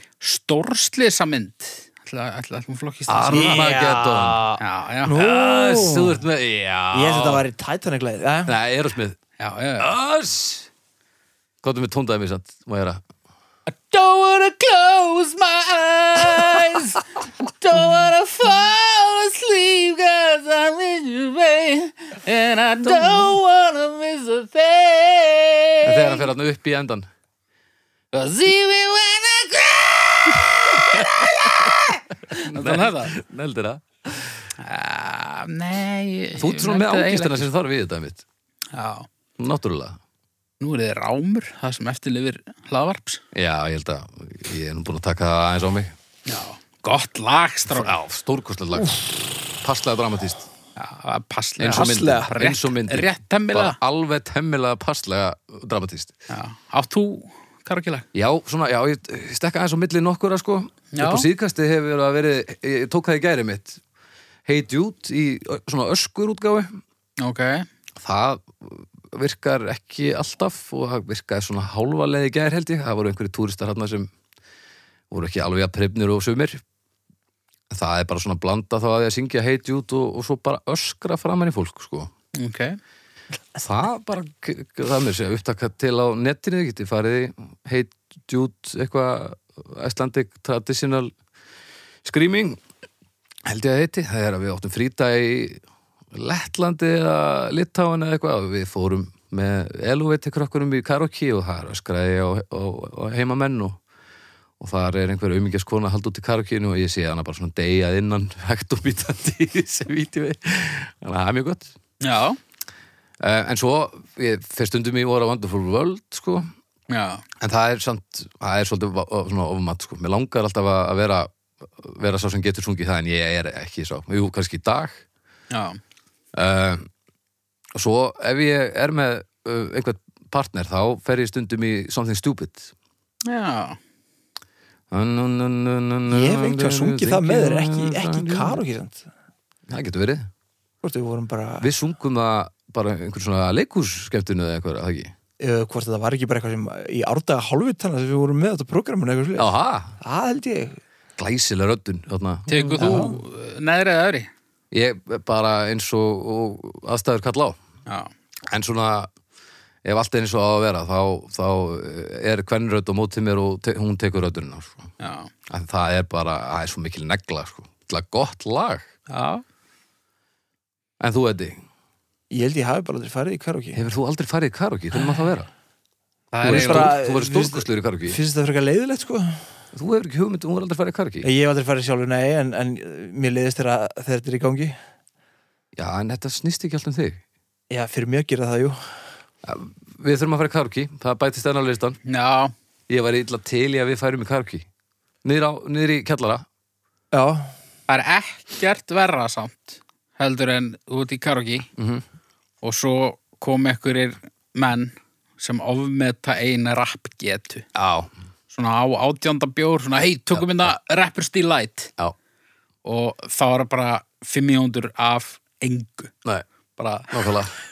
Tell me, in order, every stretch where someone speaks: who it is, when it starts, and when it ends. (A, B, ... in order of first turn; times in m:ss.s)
0:00.2-0:03.7 A
0:03.1-0:04.5 B
0:03.3-0:06.2 C
0:04.6-0:05.1 A
0:05.1-0:07.4 B
0:06.9-0:08.6 C
0:08.5-0:09.2 B
0:09.4-0:09.9 A
0:09.8-0:10.7 B
0:11.6-0:13.0 B
0:13.7-0:26.3 A
0:22.9-0:23.3 B
0:25.8-0:27.1 B
0:28.1-0:33.1 A
0:30.9-0:31.7 B
0:32.3-0:34.4 B
0:34.6-0:37.5 A
0:36.4-0:38.2 B
0:38.7-0:39.1 A
0:39.4-0:40.0 B
0:40.6-0:43.2 A
0:43.3-0:45.9 B
0:46.3-0:48.0 A
0:47.7-0:50.5 B
0:50.8-0:53.8 A
0:51.6-0:56.1 B
0:51.7-0:52.3 C
0:56.3-0:58.0 A
0:58.1-1:03.8 B
1:00.9-1:01.3 A
1:04.5-1:06.8 B
1:07.2-1:07.7 A
1:08.0-1:14.1 B
1:15.1-1:16.6 B
1:17.7-1:22.1 B
1:22.4-1:22.8 A
1:23.6-1:31.1 B
1:32.0-1:32.6 B
1:33.5-1:35.6 B
1:36.1-1:43.8 B
1:44.6-1:51.7 B
1:52.0-1:52.4 A
1:53.2-1:56.5 B
1:56.9-1:57.2 A
1:57.4-2:05.0 B
2:05.5-2:05.8 A
2:06.3-2:06.9 B
2:07.8-2:12.7 B
2:13.3-2:13.8 A
2:14.9-2:18.6 B
2:16.1-2:19.1 C
2:19.7-2:20.3 B
2:20.8-2:21.7 C
2:21.6-2:25.1 B
2:25.4-2:30.8 C
2:29.4-2:30.0 B
2:31.2-2:33.1 B
2:32.5-2:34.3 A
2:32.8-2:33.2 C
2:34.7-2:37.6 B
2:38.5-2:39.1 B
2:39.8-2:44.9 B
2:45.0-2:45.3 A
2:45.5-2:48.9 B
2:49.1-2:49.4 A
2:51.0-2:51.6 B
2:52.3-2:53.8 C
2:53.8-2:55.5 B
2:56.3-2:57.0 A
2:56.4-2:58.2 B
2:56.4-2:59.5 C
2:59.7-3:01.3 B
3:01.2-3:04.8 C
3:05.8-3:07.2 B
3:07.7-3:08.9 C
3:09.4-3:12.0 B
3:12.1-3:12.5 A
3:12.9-3:14.7 B
3:15.2-3:16.4 B
3:17.1-3:17.5 C
3:17.9-3:21.7 A
3:21.8-3:22.0 B
3:22.6-3:27.6 A
3:27.8-3:28.1 B
3:28.5-3:31.9 A
3:32.8-3:36.1 A
3:36.8-3:37.1 A
3:37.1-3:37.5 B